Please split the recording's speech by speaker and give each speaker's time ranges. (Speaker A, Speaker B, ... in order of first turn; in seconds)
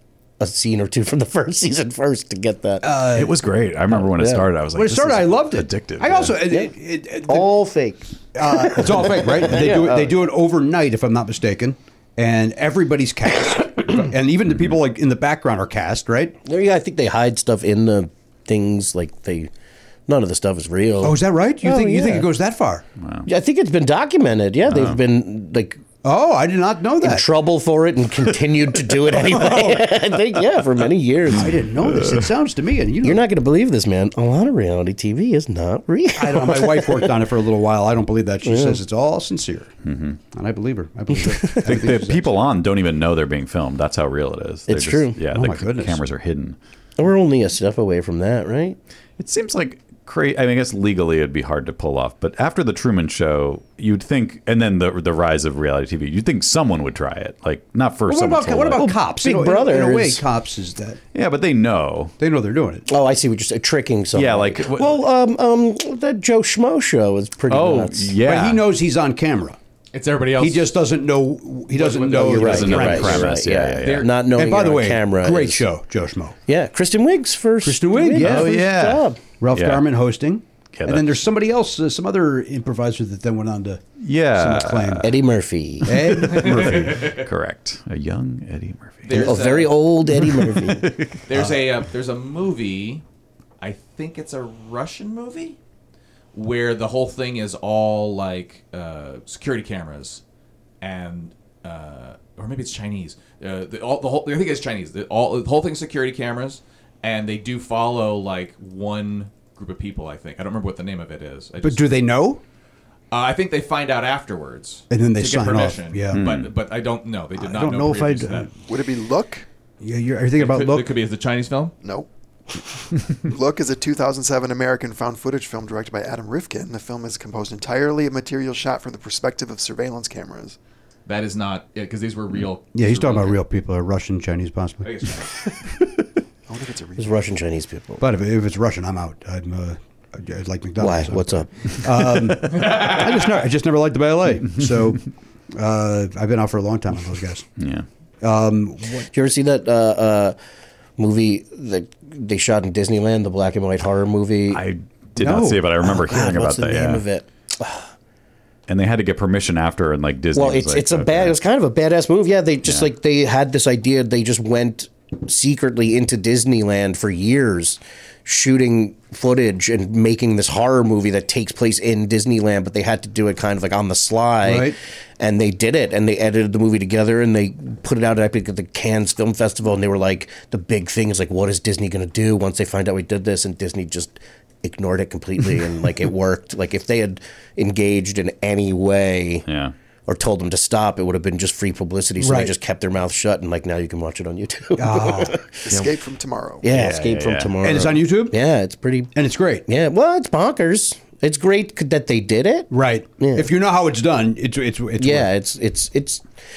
Speaker A: 0.4-2.9, 3.9-4.5, 6.5-6.7, 7.3-10.2, 16.4-19.5, 20.1-22.3, 23.3-25.8, 27.0-31.6, 33.0-37.1, 38.4-38.8, 41.2-41.5, 44.7-45.3, 47.0-48.8, 58.8-60.3, 62.9-68.2, 72.2-75.7, 76.5-79.2, 85.0-86.3, 89.1-91.0, 137.0-138.0, 140.8-142.2, 149.1-150.4, 151.0-154.6, 155.8-157.9, 160.3-189.4, 190.1-195.8, 196.6-199.1, 199.7-203.5, 205.0-206.3
Speaker B: 2.8-3.4, 4.7-7.5, 8.3-16.4, 21.0-22.8, 26.0-27.3, 29.2-29.9, 31.3-33.2, 36.2-39.7, 40.3-42.4, 45.3-46.0, 58.1-61.0, 62.2-62.9, 68.2-69.6, 70.4-73.3, 74.3-76.4, 77.6-78.7, 79.4-83.8, 84.3-85.2, 85.8-87.1, 91.3-91.6, 111.6-112.4, 114.9-116.2, 117.4-118.5, 119.8-120.9, 132.7-134.9, 138.0-147.4, 148.2-149.1, 155.2-156.3, 174.4-174.8, 192.2-192.5, 194.8-195.4, 197.6-198.4, 199.1-199.7, 202.7-205.3
Speaker C: 3.1-6.4, 23.0-23.3, 24.6-25.0, 28.2-29.8, 30.4-32.3, 39.8-40.2, 41.6-46.6, 49.2-59.0, 61.1-62.1, 64.1-65.0, 67.5-68.7, 72.4-74.1, 78.1-79.9, 80.7-81.2, 84.0-85.2, 86.4-89.4, 116.1-116.5, 147.6-147.9, 154.5-157.1, 158.7-161.4, 162.7-162.9, 189.4-189.7, 196.7-197.6
Speaker D: 69.9-70.8, 71.7-73.2, 73.8-74.1, 86.3-87.2, 89.1-89.8, 91.2-93.0, 93.6-95.6, 96.3-100.2, 100.8-111.9, 113.1-118.5, 120.4-121.7, 131.1-133.4, 134.8-135.4, 142.6-142.8
Speaker E: 118.7-119.5, 123.2-130.6, 136.5-137.2, 195.7-196.6